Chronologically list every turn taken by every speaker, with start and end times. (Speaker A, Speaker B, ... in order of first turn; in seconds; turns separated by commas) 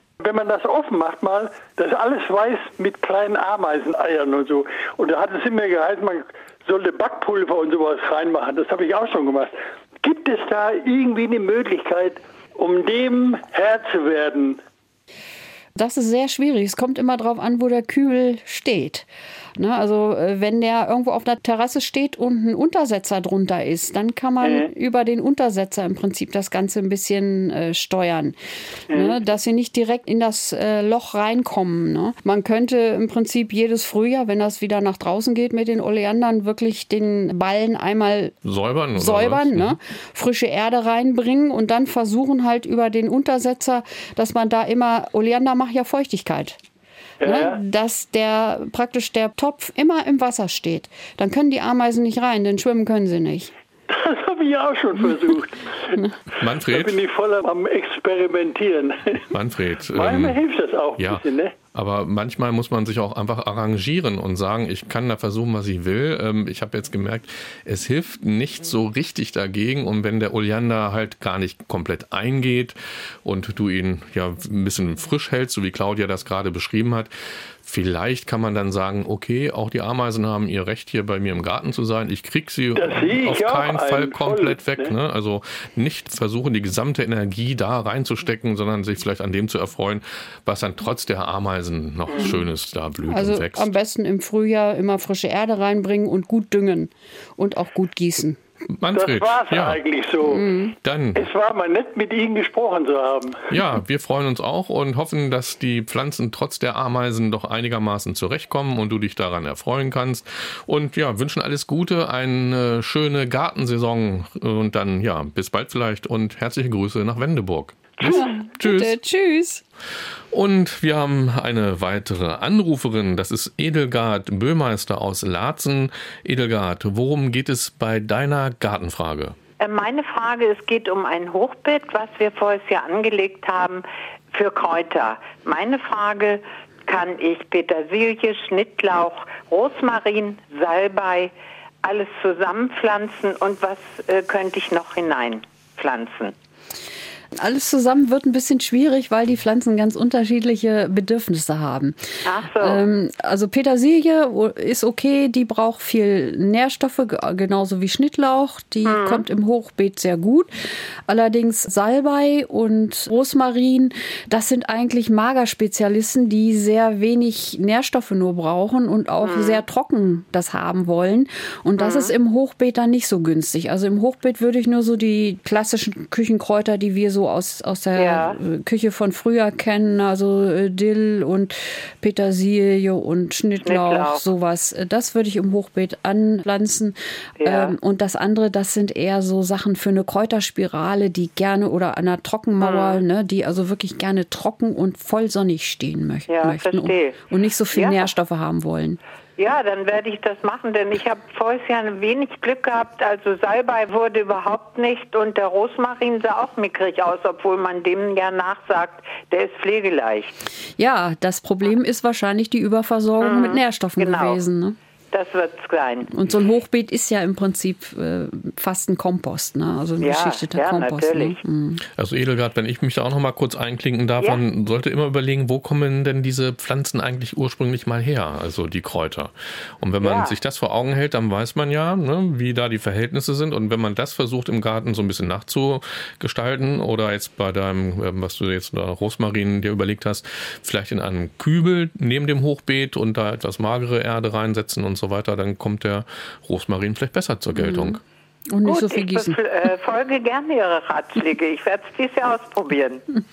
Speaker A: 0.2-14.6, Speaker B: 15.8-28.4, Speaker A: 24.4-24.7, Speaker A: 28.9-29.1, Speaker B: 28.9-38.3, Speaker C: 38.4-39.8, Speaker B: 39.0-46.6, Speaker A: 47.2-47.6, Speaker B: 47.2-53.5, Speaker A: 53.9-56.0, Speaker C: 56.4-57.0, Speaker A: 56.6-59.3, Speaker C: 59.3-60.4, Speaker A: 59.9-61.5, Speaker C: 61.0-77.1, Speaker C: 77.6-93.7, Speaker A: 82.8-84.9, Speaker B: 93.1-98.4, Speaker C: 98.7-99.8, Speaker A: 98.9-100.5, Speaker B: 100.2-100.7, Speaker C: 100.8-101.3, Speaker A: 101.1-103.4, Speaker C: 103.5-119.0, Speaker B: 118.0-119.6, Speaker C: 120.3-129.4, Speaker D: 129.6-141.3, Speaker D: 141.8-146.3, Speaker B: 147.4-160.5, Speaker D: 152.2-152.8, Speaker D: 158.8-159.2, Speaker B: 161.1-199.0, Speaker D: 169.2-169.6, Speaker D: 171.8-172.1, Speaker D: 177.9-178.4, Speaker D: 183.6-184.2, Speaker D: 187.4-187.7, Speaker D: 192.6-193.0, Speaker D: 196.3-197.2, Speaker D: 197.7-198.1, Speaker D: 199.4-210.3, Speaker B: 210.8-214.8, Speaker D: 213.2-214.4, Speaker D: 215.1-216.1, Speaker B: 216.1-221.8, Speaker D: 220.0-221.4, Speaker C: 222.0-248.0, Speaker D: 230.0-230.3, Speaker B: 247.6-248.0, Speaker B: 248.5-249.4, Speaker D: 248.6-253.0